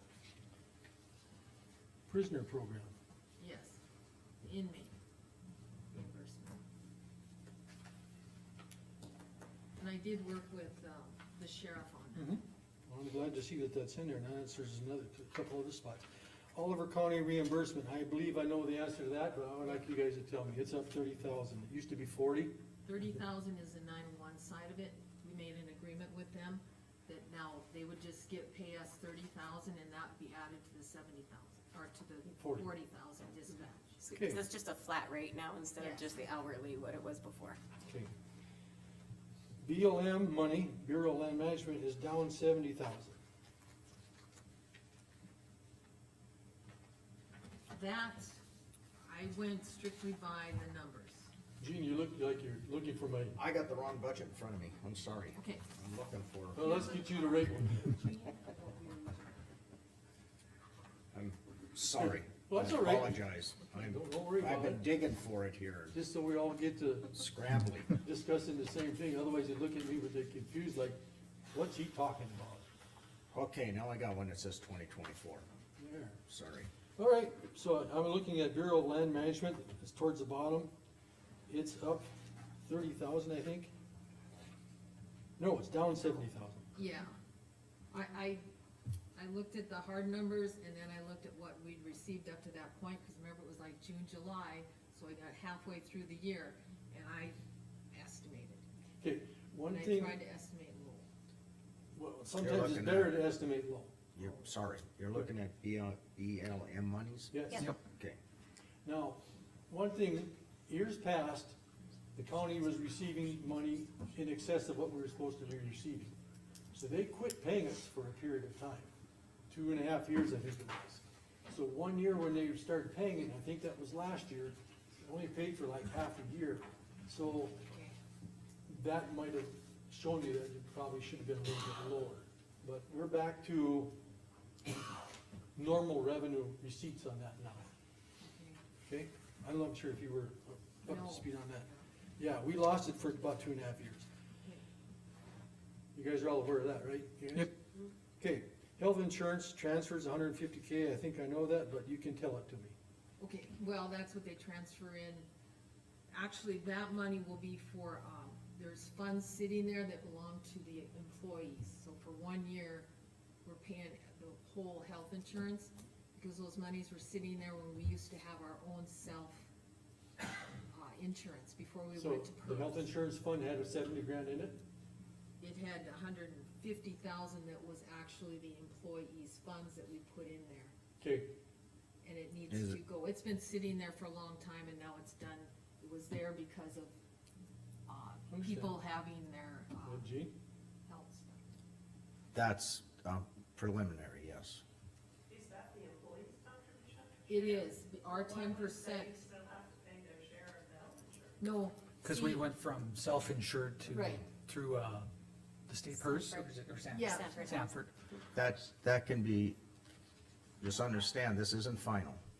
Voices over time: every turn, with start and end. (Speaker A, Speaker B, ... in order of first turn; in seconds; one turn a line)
Speaker A: 2.1-3.0
Speaker B: 3.4-3.8
Speaker B: 4.4-4.9
Speaker B: 5.9-6.6
Speaker B: 9.8-12.4
Speaker A: 12.2-22.5
Speaker B: 22.8-34.1
Speaker A: 32.3-32.7
Speaker A: 34.1-34.4
Speaker C: 34.2-37.6
Speaker B: 35.8-36.1
Speaker A: 37.9-38.1
Speaker A: 39.6-43.2
Speaker B: 47.7-48.4
Speaker B: 49.0-51.3
Speaker A: 51.6-53.4
Speaker D: 53.4-56.6
Speaker B: 55.4-55.6
Speaker A: 56.5-58.1
Speaker B: 56.6-57.0
Speaker B: 58.3-59.3
Speaker D: 61.1-66.0
Speaker A: 62.0-64.9
Speaker A: 65.9-67.2
Speaker D: 67.2-68.0
Speaker A: 68.0-72.6
Speaker D: 73.3-75.5
Speaker A: 75.8-76.2
Speaker D: 76.3-76.7
Speaker A: 77.0-80.7
Speaker A: 81.5-82.1
Speaker A: 82.6-83.7
Speaker A: 85.4-86.7
Speaker B: 86.7-87.1
Speaker B: 87.9-88.4
Speaker B: 89.1-97.3
Speaker B: 97.9-98.6
Speaker A: 99.0-100.2
Speaker B: 99.7-101.1
Speaker A: 101.9-104.0
Speaker D: 102.3-103.2
Speaker D: 104.1-108.2
Speaker A: 107.3-107.7
Speaker A: 108.8-111.6
Speaker A: 112.1-116.1
Speaker A: 116.7-118.9
Speaker A: 119.5-127.6
Speaker B: 127.7-127.9
Speaker A: 128.7-134.0
Speaker A: 135.5-137.7
Speaker B: 138.2-138.6
Speaker A: 138.9-141.7
Speaker B: 140.8-141.8
Speaker A: 142.2-144.1
Speaker A: 145.9-147.6
Speaker A: 148.2-152.7
Speaker B: 153.2-155.3
Speaker B: 156.1-162.9
Speaker B: 163.4-169.5
Speaker B: 170.7-172.9
Speaker A: 171.9-174.6
Speaker B: 175.4-180.7
Speaker A: 181.0-181.3
Speaker B: 182.0-186.9
Speaker D: 182.5-182.8
Speaker B: 187.9-190.1
Speaker A: 188.3-188.8
Speaker A: 189.8-190.3
Speaker B: 190.9-191.4
Speaker D: 192.3-194.6
Speaker E: 195.3-201.4
Speaker B: 197.3-199.1
Speaker B: 201.4-202.5
Speaker F: 202.0-205.1
Speaker B: 203.9-204.2
Speaker F: 205.7-207.9
Speaker B: 206.9-207.5
Speaker C: 207.1-207.4
Speaker D: 208.3-209.6
Speaker D: 210.6-212.2